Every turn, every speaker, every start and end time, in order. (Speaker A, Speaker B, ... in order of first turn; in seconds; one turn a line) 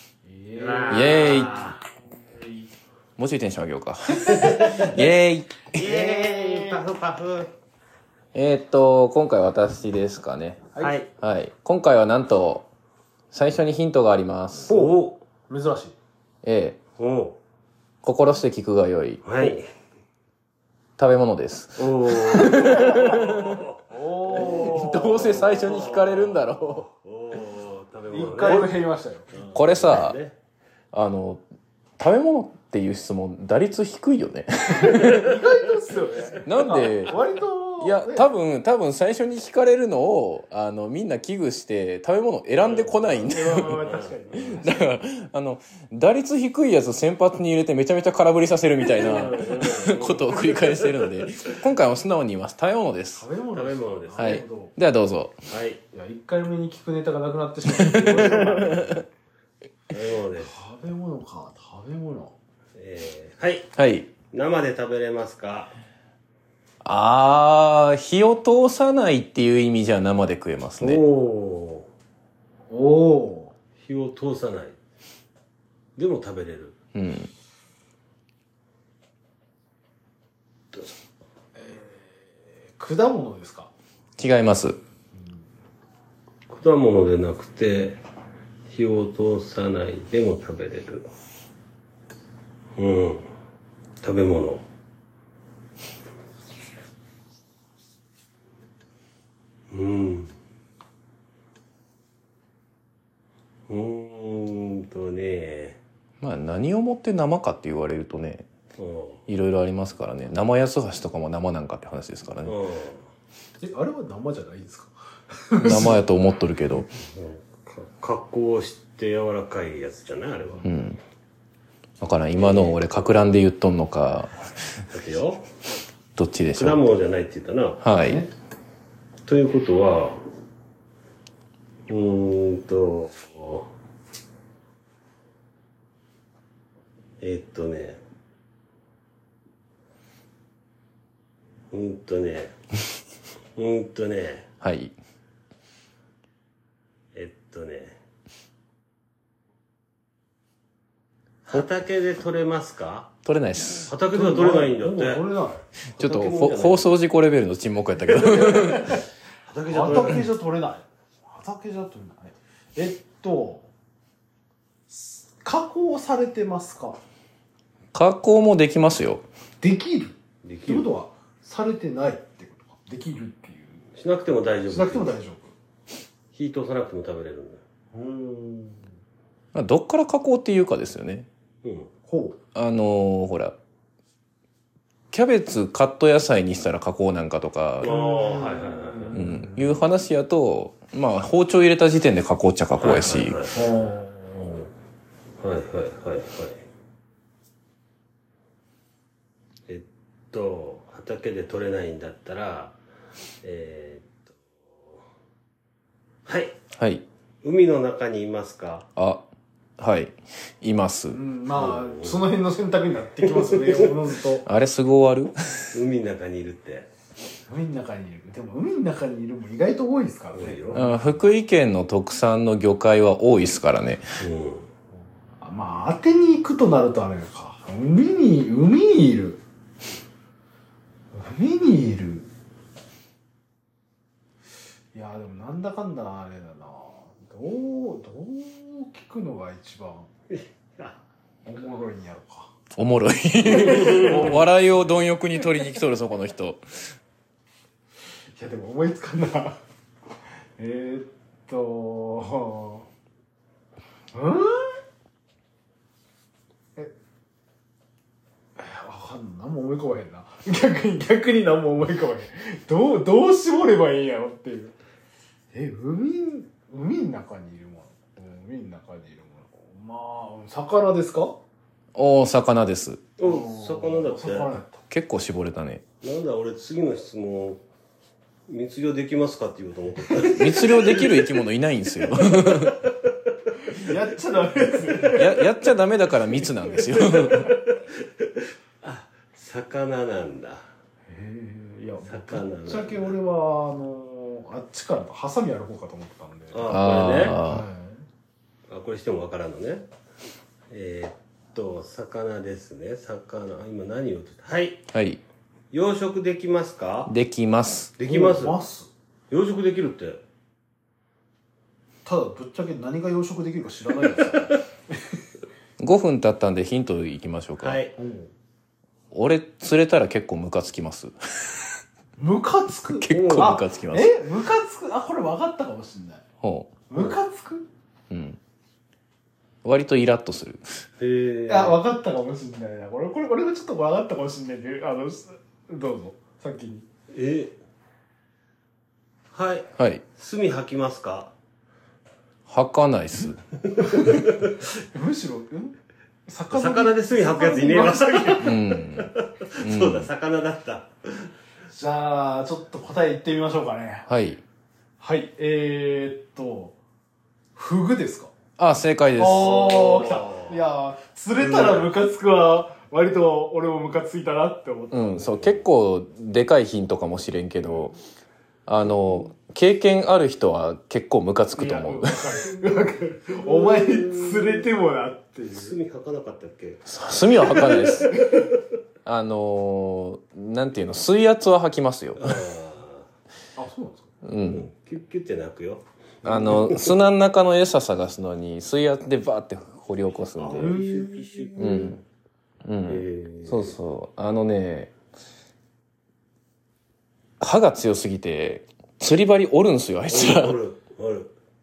Speaker A: 0.2-1.5
Speaker B: 0.6-1.8
Speaker C: 0.9-1.6
Speaker A: 2.4-2.6
Speaker C: 3.2-5.8
Speaker A: 4.1-4.9
Speaker B: 4.3-4.9
Speaker B: 5.7-7.5
Speaker A: 5.8-6.8
Speaker C: 8.3-10.6
Speaker B: 10.8-11.1
Speaker C: 11.2-12.7
Speaker C: 13.3-14.8
Speaker A: 14.7-14.9
Speaker B: 14.7-15.2
Speaker A: 15.5-15.9
Speaker C: 16.4-16.8
Speaker B: 17.0-17.4
Speaker C: 18.0-19.6
Speaker B: 19.2-19.6
Speaker C: 21.0-23.6
Speaker B: 21.8-23.8
Speaker A: 23.9-25.2
Speaker B: 24.3-28.7
Speaker C: 24.4-26.9
Speaker A: 28.1-29.3
Speaker B: 29.3-30.4
Speaker C: 29.5-30.2
Speaker C: 30.9-31.4
Speaker C: 32.0-35.3
Speaker A: 34.8-38.3
Speaker C: 36.4-37.2
Speaker C: 37.8-43.9
Speaker A: 42.8-45.0
Speaker B: 43.7-44.2
Speaker C: 44.6-53.2
Speaker B: 48.8-51.4
Speaker A: 53.1-54.7
Speaker B: 53.5-54.4
Speaker C: 54.2-55.4
Speaker B: 55.5-55.8
Speaker A: 55.9-59.0
Speaker C: 57.7-59.0
Speaker B: 59.9-60.5
Speaker A: 60.4-62.3
Speaker B: 62.8-63.7
Speaker C: 63.8-64.1
Speaker B: 64.3-65.7
Speaker C: 66.8-71.0
Speaker B: 70.8-71.9
Speaker A: 72.7-73.5
Speaker B: 73.8-74.8
Speaker B: 76.0-76.8
Speaker C: 76.9-77.3
Speaker A: 81.6-83.7
Speaker C: 84.2-84.8
Speaker A: 85.1-85.5
Speaker B: 86.5-88.0
Speaker B: 88.7-91.1
Speaker B: 92.8-93.3
Speaker B: 94.0-94.6
Speaker B: 99.7-100.3
Speaker B: 103.7-105.8
Speaker C: 106.2-108.5
Speaker B: 108.8-109.2
Speaker C: 109.3-112.5
Speaker B: 112.4-113.0
Speaker A: 113.6-116.0
Speaker C: 115.6-116.9
Speaker B: 117.1-120.6
Speaker C: 120.6-121.0
Speaker C: 122.0-124.8
Speaker B: 122.4-122.8
Speaker B: 124.9-125.5
Speaker C: 126.2-126.8
Speaker B: 126.5-127.8
Speaker C: 127.8-128.2
Speaker B: 129.2-130.2
Speaker B: 131.9-133.7
Speaker B: 137.2-138.0
Speaker B: 141.7-142.5
Speaker B: 143.6-144.5
Speaker C: 144.6-144.9
Speaker B: 147.1-148.0
Speaker B: 151.5-153.1
Speaker C: 153.2-153.9
Speaker B: 153.9-155.2
Speaker A: 154.1-155.6
Speaker C: 155.9-159.0
Speaker B: 156.0-156.9
Speaker B: 158.1-158.9
Speaker B: 159.5-160.3
Speaker A: 159.7-163.7
Speaker A: 164.9-167.0
Speaker C: 167.9-169.2
Speaker A: 169.6-173.9
Speaker B: 170.4-170.9
Speaker B: 173.9-175.2
Speaker A: 174.7-175.5
Speaker B: 176.3-177.6
Speaker A: 177.9-178.8
Speaker C: 179.5-181.3
Speaker B: 181.6-181.9
Speaker A: 182.1-182.4
Speaker C: 182.5-183.5
Speaker C: 185.1-187.9
Speaker B: 187.8-189.2
Speaker A: 187.8-189.8
Speaker C: 189.1-193.4
Speaker B: 192.8-193.7
Speaker A: 193.5-194.7
Speaker B: 195.4-196.6
Speaker B: 199.7-202.8
Speaker B: 203.4-204.3
Speaker B: 206.2-206.6
Speaker C: 206.8-207.0
Speaker B: 207.4-208.9
Speaker C: 209.0-209.2
Speaker C: 209.8-211.2
Speaker A: 211.1-214.5
Speaker B: 211.5-212.2
Speaker B: 213.2-214.0
Speaker C: 214.4-215.8
Speaker B: 215.7-216.9
Speaker A: 217.5-221.2
Speaker B: 220.3-220.8
Speaker C: 220.7-224.0
Speaker B: 224.2-224.7
Speaker A: 225.4-229.4
Speaker A: 231.1-232.3
Speaker A: 234.9-240.1
Speaker B: 240.3-241.0
Speaker A: 241.4-242.5
Speaker C: 242.8-246.6
Speaker A: 243.5-244.4
Speaker B: 243.7-244.2
Speaker A: 248.3-249.6
Speaker A: 250.6-252.8
Speaker A: 254.1-254.8
Speaker A: 258.6-264.8
Speaker A: 265.5-271.4
Speaker C: 271.9-273.0
Speaker B: 273.2-274.6
Speaker A: 273.2-274.8
Speaker C: 274.9-275.8
Speaker B: 276.0-277.6
Speaker B: 278.5-281.4
Speaker C: 280.3-282.8
Speaker A: 280.3-280.8
Speaker B: 282.3-282.6
Speaker A: 283.7-285.5
Speaker C: 285.0-287.5
Speaker B: 287.0-288.2
Speaker B: 288.8-290.7
Speaker A: 291.1-298.0
Speaker B: 292.0-293.2
Speaker B: 296.5-297.4
Speaker C: 296.7-297.7
Speaker B: 298.7-299.9
Speaker B: 300.7-304.8
Speaker C: 304.9-305.2
Speaker B: 305.7-307.1
Speaker C: 307.1-307.9
Speaker B: 308.0-308.6
Speaker A: 308.0-308.9
Speaker B: 309.3-310.2
Speaker A: 312.1-314.6
Speaker C: 315.8-317.8
Speaker B: 317.6-318.0
Speaker A: 318.0-318.3
Speaker C: 319.1-321.1
Speaker A: 322.2-326.2
Speaker C: 323.0-324.2
Speaker B: 323.1-323.5
Speaker C: 326.4-326.7
Speaker A: 326.9-327.7
Speaker C: 328.1-328.4
Speaker C: 329.6-330.6
Speaker B: 331.0-331.8
Speaker A: 331.5-336.9
Speaker B: 337.1-337.6
Speaker B: 339.3-341.3
Speaker C: 339.8-340.0
Speaker C: 342.5-343.4
Speaker B: 343.7-344.6
Speaker A: 344.9-348.6
Speaker B: 346.5-351.3
Speaker C: 348.4-350.1
Speaker A: 351.7-354.1
Speaker C: 354.1-354.4
Speaker A: 355.0-356.8
Speaker A: 357.6-358.3
Speaker C: 358.6-359.7
Speaker A: 359.2-365.3
Speaker B: 359.3-360.6
Speaker B: 361.4-361.9
Speaker C: 364.9-367.9
Speaker B: 365.2-365.6
Speaker C: 368.7-372.4
Speaker A: 371.6-375.8
Speaker B: 373.4-374.7
Speaker B: 375.5-376.9
Speaker C: 376.9-378.1
Speaker B: 377.4-378.6
Speaker A: 377.7-378.4
Speaker C: 379.1-382.4
Speaker B: 382.2-383.1
Speaker A: 383.6-384.1
Speaker C: 384.2-384.7
Speaker B: 384.5-386.9
Speaker A: 386.2-386.5
Speaker C: 386.2-390.8
Speaker B: 390.4-392.0
Speaker A: 390.5-391.9
Speaker C: 391.6-392.0
Speaker C: 392.6-394.9
Speaker B: 392.9-393.8
Speaker C: 397.4-400.6
Speaker B: 400.1-401.3